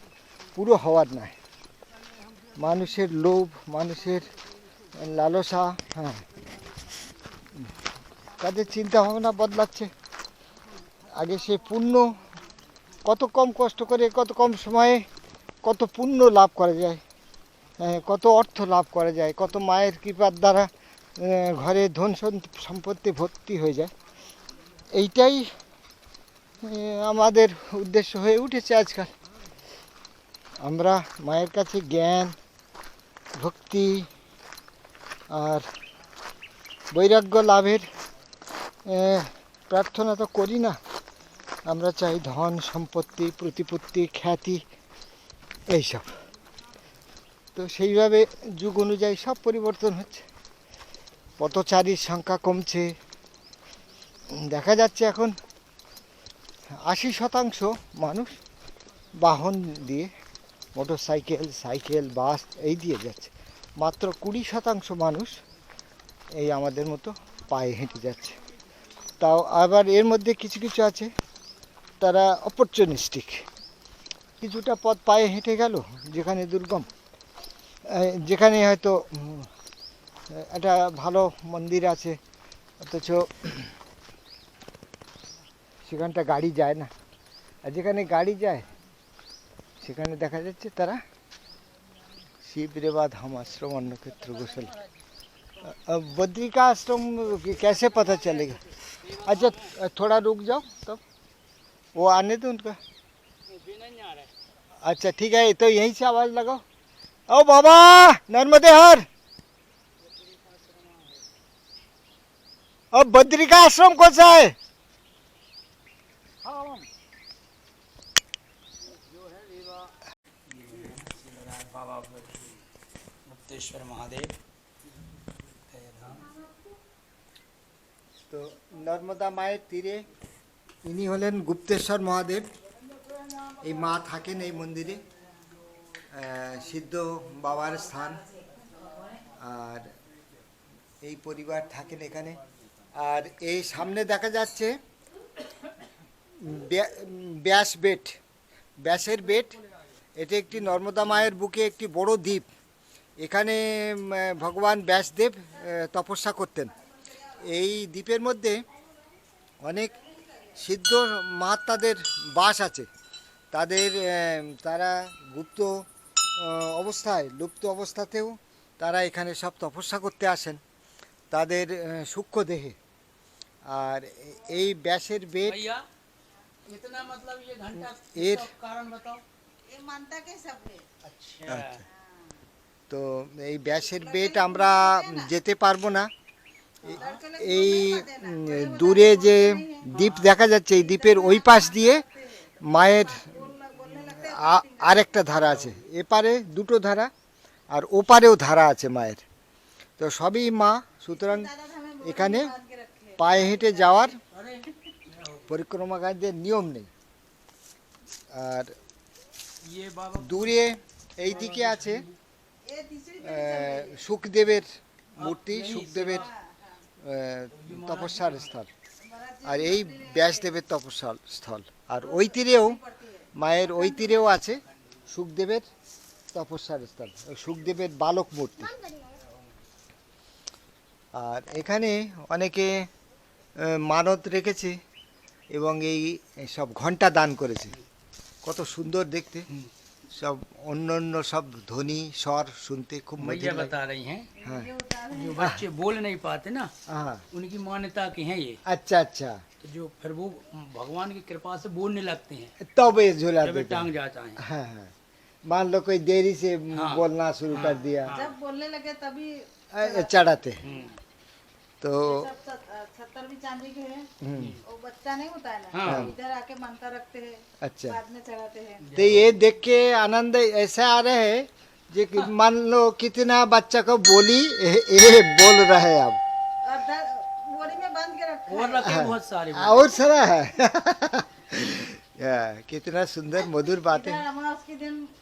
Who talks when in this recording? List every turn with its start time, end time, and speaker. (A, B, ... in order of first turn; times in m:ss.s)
0:00.6-0:01.4 A
0:02.6-0:04.3 A
0:05.0-0:06.2 A
0:08.4-0:09.9 A
0:11.2-0:12.1 A
0:13.0-0:15.0 A
0:15.6-0:17.0 A
0:17.8-0:23.9 A
0:24.9-0:25.5 A
0:26.6-0:29.1 A
0:30.6-0:32.4 A
0:33.4-0:34.1 A
0:35.3-0:35.7 A
0:36.9-0:37.9 A
0:38.9-0:40.8 A
0:41.7-0:44.6 A
0:45.7-0:46.1 A
0:47.6-0:50.3 A
0:51.4-0:52.9 A
0:54.3-0:55.3 A
0:56.8-0:58.4 A
0:59.2-1:00.1 A
1:00.8-1:05.4 A
1:06.4-1:08.4 A
1:09.2-1:11.1 A
1:12.0-1:13.4 A
1:14.4-1:16.9 A
1:17.9-1:19.5 A
1:20.3-1:22.2 A
1:22.8-1:23.7 A
1:25.9-1:26.9 A
1:27.6-1:28.7 A
1:29.8-1:31.0 A
1:32.4-1:34.7 A
1:35.6-1:38.6 A
1:39.0-1:39.7 B
1:39.2-1:41.0 A
1:42.0-1:42.8 A
1:43.5-1:44.3 B
1:44.8-1:46.6 A
1:47.3-1:49.1 A
1:50.2-1:51.2 B
1:52.9-1:54.6 A
1:56.4-1:56.8 B
1:59.5-1:59.8 B
2:00.5-2:02.6 B
2:03.2-2:04.3 B
2:05.7-2:06.3 B
2:08.3-2:10.0 A
2:10.8-2:12.5 A
2:13.6-2:15.0 A
2:16.1-2:18.2 A
2:18.4-2:19.1 C
2:19.4-2:19.9 A
2:21.0-2:22.4 A
2:23.0-2:24.8 A
2:26.4-2:28.2 A
2:28.8-2:29.6 A
2:30.2-2:32.5 A
2:33.2-2:36.7 A
2:37.4-2:38.6 A
2:39.6-2:40.0 A
2:40.6-2:42.9 A
2:43.5-2:50.6 A
2:51.3-2:52.8 A
2:53.7-2:55.6 A
2:55.4-2:55.8 B
2:56.7-2:59.2 B
2:58.2-2:58.5 A
2:59.7-3:00.8 C
3:01.0-3:01.8 B
3:01.5-3:01.8 A
3:01.9-3:02.3 C
3:02.9-3:06.1 A
3:03.7-3:05.3 C
3:06.8-3:15.1 C
3:06.9-3:12.0 A
3:06.9-3:07.2 B
3:09.9-3:10.2 B
3:12.6-3:13.5 A
3:14.0-3:17.1 A
3:15.4-3:15.7 B
3:17.7-3:19.2 A
3:20.0-3:21.5 A
3:21.1-3:24.1 C
3:22.0-3:22.5 A
3:23.2-3:24.2 A
3:24.3-3:25.5 B
3:25.5-3:26.9 A
3:28.3-3:28.7 A
3:29.6-3:30.6 B
3:30.2-3:32.0 A
3:31.2-3:32.2 B
3:32.6-3:34.0 C
3:33.2-3:36.3 A
3:35.2-3:36.3 B
3:36.2-3:36.8 C
3:37.0-3:38.7 A
3:37.5-3:38.5 B
3:39.0-3:40.5 C
3:39.4-3:42.8 A
3:42.0-3:44.2 C
3:43.4-3:45.7 A
3:46.3-3:48.8 A
3:51.2-3:52.9 A
3:53.6-3:54.8 A
3:55.5-3:57.8 A
3:58.4-3:59.5 A
4:00.1-4:03.7 A
4:03.2-4:04.3 B
4:04.4-4:05.5 C
4:05.1-4:06.7 B
4:06.9-4:07.2 A
4:07.3-4:08.6 B
4:08.7-4:09.4 A
4:09.6-4:12.6 B
4:12.6-4:14.9 A
4:13.4-4:14.4 B
4:15.5-4:18.1 A
4:16.7-4:18.4 B
4:18.1-4:20.9 C
4:19.7-4:20.6 A
4:20.6-4:21.0 B
4:21.8-4:22.3 A
4:22.0-4:24.1 C
4:24.2-4:24.6 A
4:24.4-4:24.6 B
4:24.6-4:28.9 C
4:25.7-4:26.1 B
4:25.9-4:26.1 A
4:27.6-4:28.0 A
4:28.8-4:29.3 B
4:29.0-4:36.2 A
4:36.6-4:39.1 C
4:38.5-4:40.0 B
4:38.9-4:44.2 A
4:43.6-4:45.1 C